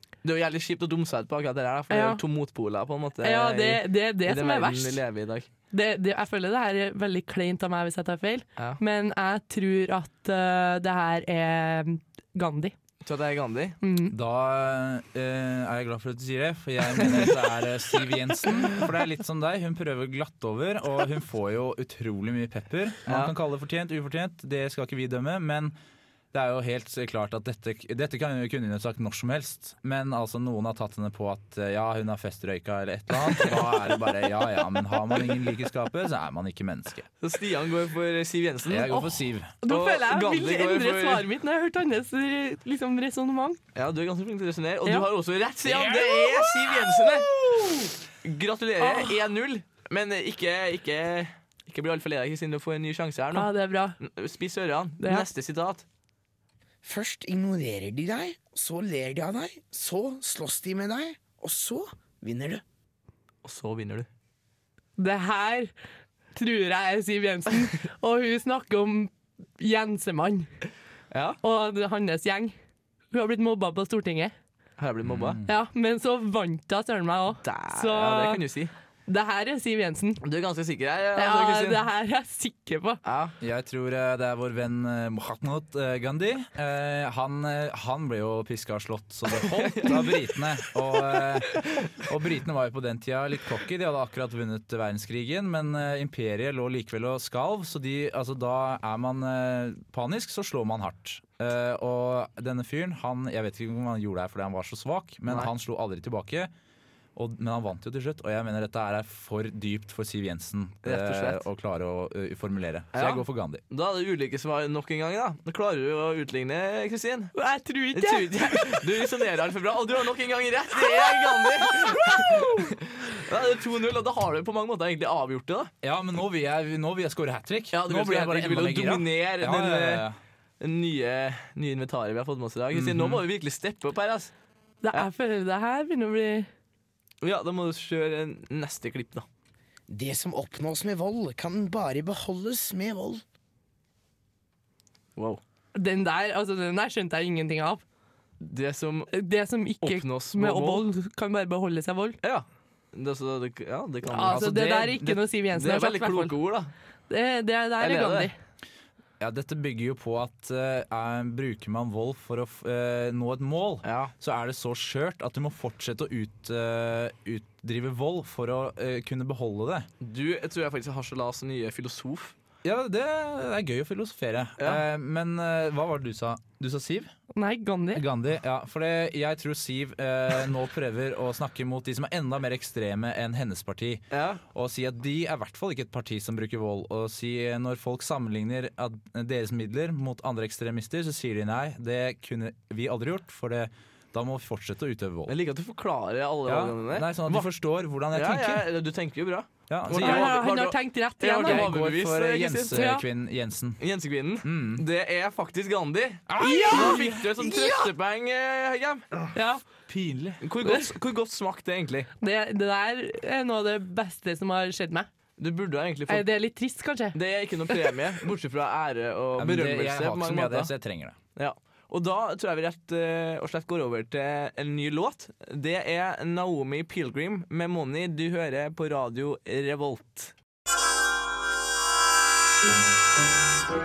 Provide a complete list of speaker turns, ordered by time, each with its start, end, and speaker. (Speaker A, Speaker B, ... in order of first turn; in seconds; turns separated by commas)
Speaker A: 0.2-5.5, Speaker B: 1.9-2.2, Speaker B: 3.2-5.0, Speaker B: 5.7-12.7, Speaker A: 13.0-13.8, Speaker B: 13.8-14.1, Speaker C: 14.1-25.7, Speaker A: 17.0-17.3, Speaker A: 23.1-23.3, Speaker C: 26.3-37.1, Speaker A: 37.2-41.3, Speaker C: 38.7-39.5, Speaker B: 39.6-43.6, Speaker A: 43.7-47.3, Speaker B: 45.7-46.5, Speaker A: 48.2-55.8, Speaker B: 48.8-49.1, Speaker B: 53.3-54.0, Speaker B: 55.0-55.3, Speaker D: 56.8-62.6, Speaker A: 63.4-64.1, Speaker B: 65.0-65.7, Speaker B: 66.3-70.5, Speaker A: 71.1-71.4, Speaker B: 71.4-72.5, Speaker B: 73.1-74.3, Speaker A: 74.8-75.4, Speaker C: 75.0-75.5, Speaker B: 75.5-78.4, Speaker A: 77.4-78.7, Speaker B: 79.1-80.2, Speaker A: 80.2-81.8, Speaker B: 81.2-83.0, Speaker A: 83.0-83.3, Speaker C: 83.4-106.5, Speaker A: 89.4-90.0, Speaker A: 91.5-91.8, Speaker C: 107.1-113.6, Speaker A: 110.8-111.4, Speaker A: 112.9-117.3, Speaker B: 117.3-118.8, Speaker A: 117.9-125.7, Speaker B: 120.8-122.7, Speaker C: 125.8-130.2, Speaker A: 127.7-130.1, Speaker A: 130.6-134.3, Speaker C: 132.7-133.2, Speaker B: 134.8-136.5, Speaker A: 137.2-139.2, Speaker D: 139.9-143.2, Speaker A: 145.2-145.4, Speaker B: 145.7-147.8, Speaker A: 148.4-149.1, Speaker B: 149.1-152.2, Speaker A: 149.8-150.8, Speaker A: 152.2-156.7, Speaker B: 154.1-156.3, Speaker B: 157.1-158.3, Speaker A: 157.8-158.3, Speaker C: 159.2-169.9, Speaker A: 163.8-164.1, Speaker A: 170.0-172.3, Speaker C: 172.6-177.1, Speaker A: 174.6-174.8, Speaker B: 177.3-178.0, Speaker C: 177.9-195.3, Speaker A: 184.1-184.4, Speaker A: 195.3-197.5, Speaker C: 196.4-198.7, Speaker A: 198.1-202.8, Speaker C: 199.7-200.4, Speaker B: 199.9-201.7, Speaker C: 201.4-203.8, Speaker B: 202.7-203.0, Speaker A: 203.8-209.1, Speaker C: 204.4-204.8, Speaker C: 206.3-207.4, Speaker B: 206.4-207.0, Speaker B: 209.3-209.6, Speaker C: 209.9-210.4, Speaker A: 210.4-212.1, Speaker B: 210.6-210.9, Speaker B: 212.2-215.1, Speaker A: 215.4-216.3, Speaker B: 216.1-217.2, Speaker A: 217.1-220.7, Speaker C: 219.4-221.2, Speaker A: 221.3-230.3